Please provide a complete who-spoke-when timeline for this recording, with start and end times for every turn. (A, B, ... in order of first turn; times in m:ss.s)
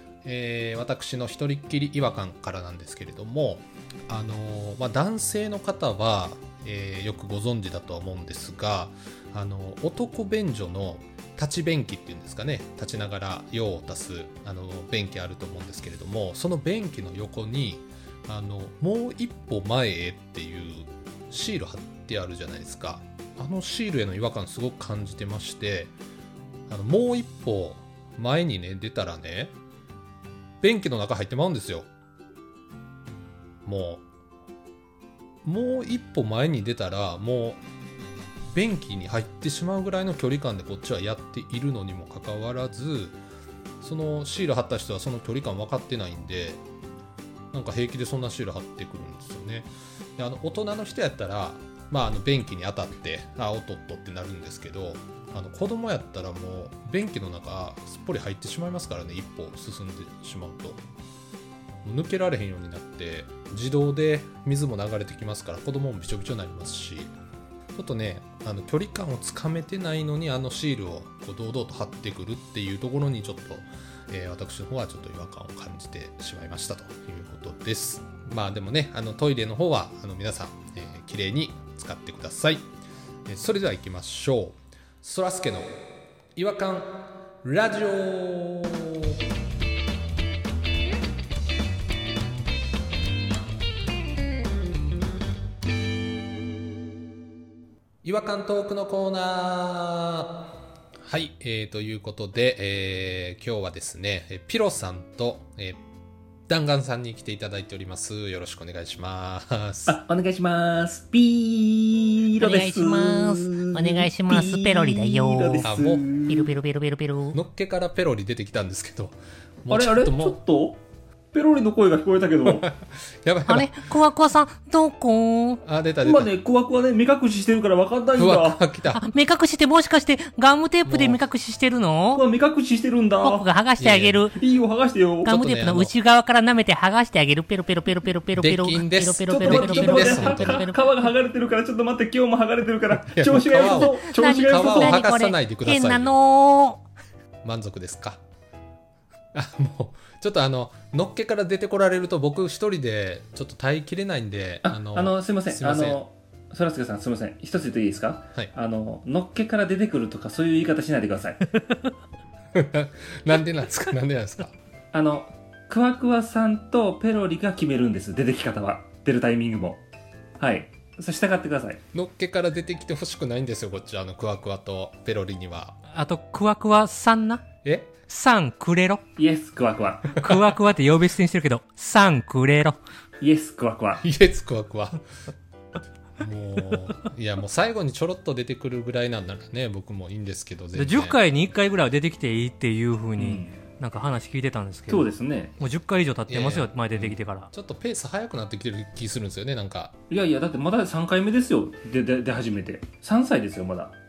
0:00.2-0:25.9 A
0:26.7-0:29.5 A
0:30.6-0:31.9 A
0:33.6-0:34.0 A
0:35.4-0:37.6 A
0:38.5-0:43.2 A
0:43.8-0:46.6 A
0:47.5-1:00.8 A
1:01.8-1:07.1 A
1:07.7-1:22.7 A
1:23.2-1:25.8 A
1:26.4-1:29.2 A
1:38.0-1:40.5 A
1:41.0-1:45.8 A
1:46.5-1:50.0 A
1:49.9-1:56.5 B
1:52.4-1:55.7 C
1:55.6-1:56.0 A
1:56.3-1:57.4 C
1:57.3-2:00.4 A
1:59.7-2:00.8 B
2:01.3-2:02.7 B
2:02.4-2:03.8 A
2:03.5-2:05.6 C
2:05.6-2:06.3 A
2:06.0-2:08.6 B
2:08.2-2:09.1 A
2:08.9-2:12.2 C
2:10.8-2:11.2 A
2:12.1-2:13.4 B
2:13.2-2:14.4 C
2:13.8-2:14.3 A
2:14.3-2:15.3 B
2:15.2-2:20.8 C
2:15.3-2:15.9 A
2:18.3-2:20.7 A
2:19.3-2:25.0 B
2:23.0-2:26.1 A
2:23.7-2:26.8 C
2:27.4-2:28.2 A
2:29.3-2:36.0 A
2:34.6-2:41.5 B
2:42.5-2:44.5 A
2:44.9-2:49.8 B
2:50.4-2:51.8 B
2:51.9-2:55.8 A
2:55.9-2:57.4 C
2:57.6-2:57.9 A
2:58.1-2:59.0 C
2:59.2-3:00.1 B
3:00.2-3:02.8 C
3:00.2-3:00.5 A
3:03.2-3:04.0 B
3:04.0-3:05.0 A
3:06.2-3:11.2 A
3:10.7-3:17.5 C
3:13.2-3:13.6 B
3:14.9-3:15.5 B
3:16.3-3:19.9 A
3:20.1-3:23.9 B